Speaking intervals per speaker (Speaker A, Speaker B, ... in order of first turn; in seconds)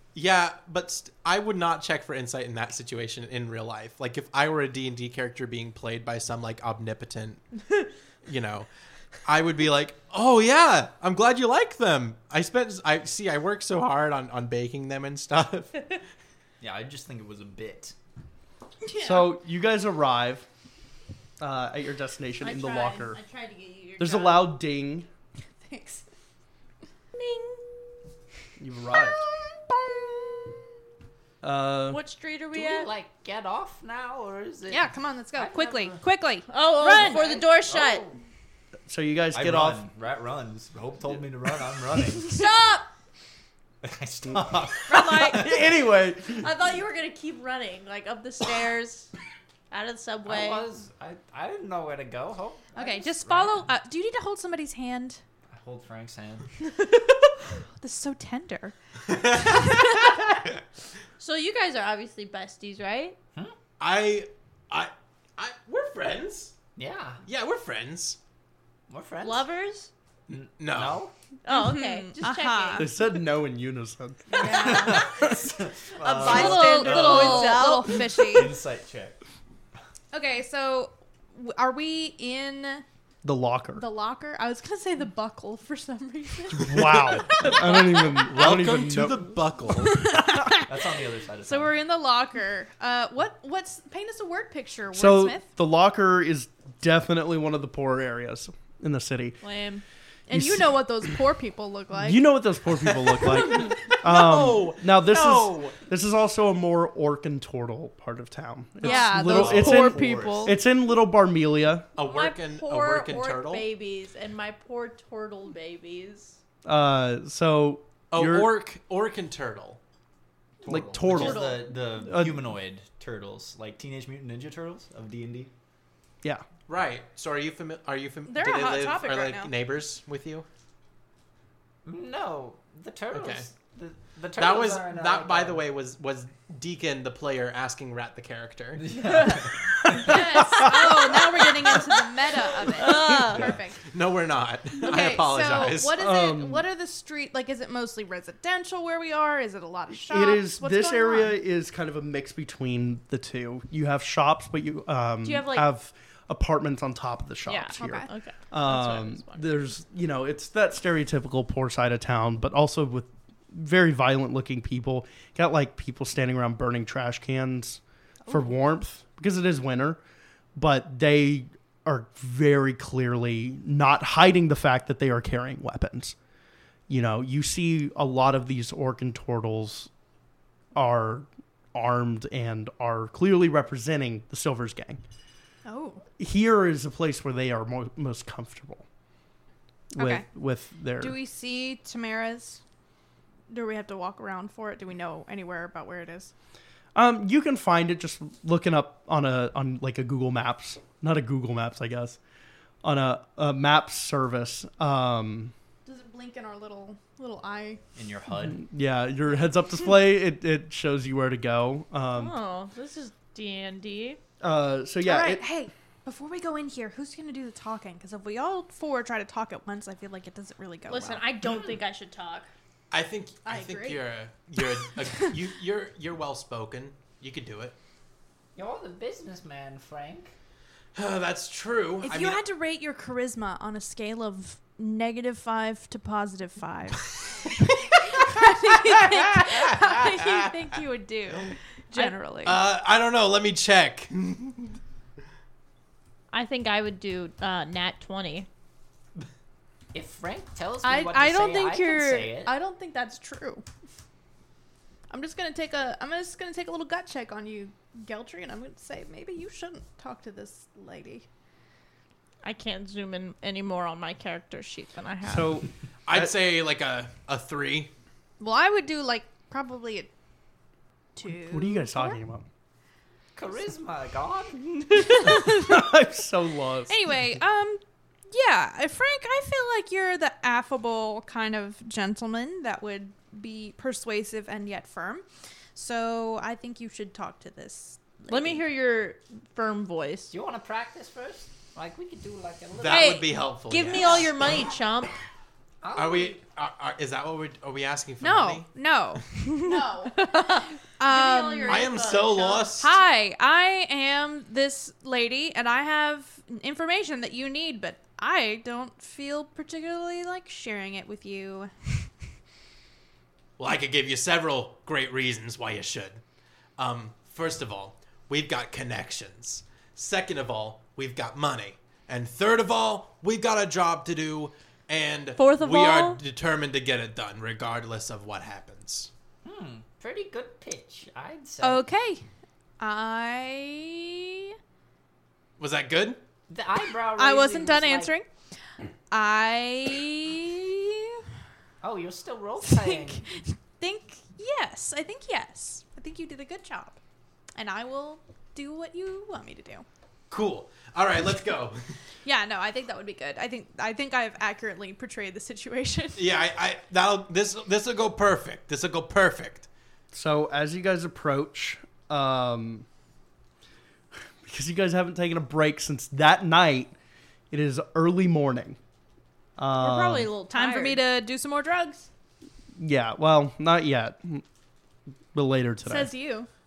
Speaker A: 0.1-7.5, 8.2-8.7, 9.2-15.9, 63.8-66.5, 67.2-68.2, 70.3-71.0, 88.1-90.1, 102.8-105.7, 112.0-113.7, 118.1-119.8, 126.7-130.4, 133.1-133.5, 134.3-138.8, 143.8-146.0, 222.9-227.8, 230.9-232.4, 238.8-240.6, 242.4-244.7, 266.1-267.9, 292.8-294.6, 295.9-298.7, 301.6-302.9, 313.6-316.2, 316.8-329.1, 335.6-336.2, 350.3-351.9, 356.1-359.7
Speaker B: 16.6-17.9, 32.5-36.0, 36.9-38.2, 39.3-42.4, 43.8-45.5, 50.2-53.7, 55.5-56.5, 66.8-67.2, 68.9-69.5, 70.3-71.1, 74.5-79.2, 90.4-91.7, 109.0-110.5, 120.6-125.5, 131.8-135.6, 138.8-140.2, 143.1-143.6, 207.9-208.6, 228.6-230.3, 249.9-252.5, 273.3-275.4, 290.3-293.2, 295.8-296.4, 329.4-331.8, 336.5-338.1, 341.8-343.2
Speaker C: 19.0-20.5, 21.4-23.2, 24.0-25.1, 28.6-29.2, 31.4-32.0, 38.9-39.8, 44.3-46.5, 72.8-75.3, 83.2-83.8, 86.6-89.4, 94.9-99.4, 100.3-101.2, 102.0-111.9, 116.6-118.5, 120.7-121.5, 122.0-122.5, 145.9-146.6, 149.9-170.0, 170.6-176.2, 176.9-179.9, 180.7-185.0, 186.2-188.8, 189.9-191.2, 196.9-202.2, 202.8-205.5, 208.4-212.3, 214.4-215.4, 265.2-266.3, 271.3-272.5, 275.3-276.9, 360.1-362.9, 364.4-366.9, 367.5-368.8, 369.6-370.3, 372.8-374.4, 375.3-376.1
Speaker D: 22.4-24.6, 27.1-27.6, 31.9-32.9, 36.5-38.1, 42.2-42.9, 44.9-45.5, 46.2-49.1, 49.7-50.6, 61.2-63.2, 69.2-69.9, 71.4-72.9, 74.3-78.4, 99.4-99.8, 112.0-116.4, 121.1-121.7, 140.1-141.9, 142.7-143.5, 155.2-155.7, 157.4-159.6, 212.1-214.2, 220.9-222.5, 246.3-248.5, 262.4-265.6, 288.3-290.3, 292.9-295.1, 299.4-302.7, 325.4-326.2, 369.8-371.0
Speaker E: 25.6-26.0, 34.7-37.3, 52.7-55.2, 57.6-58.7, 59.3-60.3, 71.5-72.9, 74.4-75.0, 76.2-78.6, 80.1-82.8, 83.8-88.3, 89.7-95.5, 100.3-102.3, 108.8-110.5, 128.3-129.5, 139.9-143.9, 144.8-151.3, 157.8-158.1, 185.6-186.0, 189.9-190.2, 191.0-192.6, 193.5-196.3, 205.8-207.8, 215.0-221.2, 223.4-224.0, 232.0-242.6, 250.8-253.6, 255.1-261.3, 268.4-270.1, 271.1-272.2, 275.1-275.8, 276.9-288.5, 298.2-302.1, 302.8-312.1, 331.6-332.2, 332.8-334.5, 337.1-338.3, 339.1-341.2, 342.6-347.0, 347.5-349.9, 352.2-356.2, 370.5-372.1, 375.8-376.5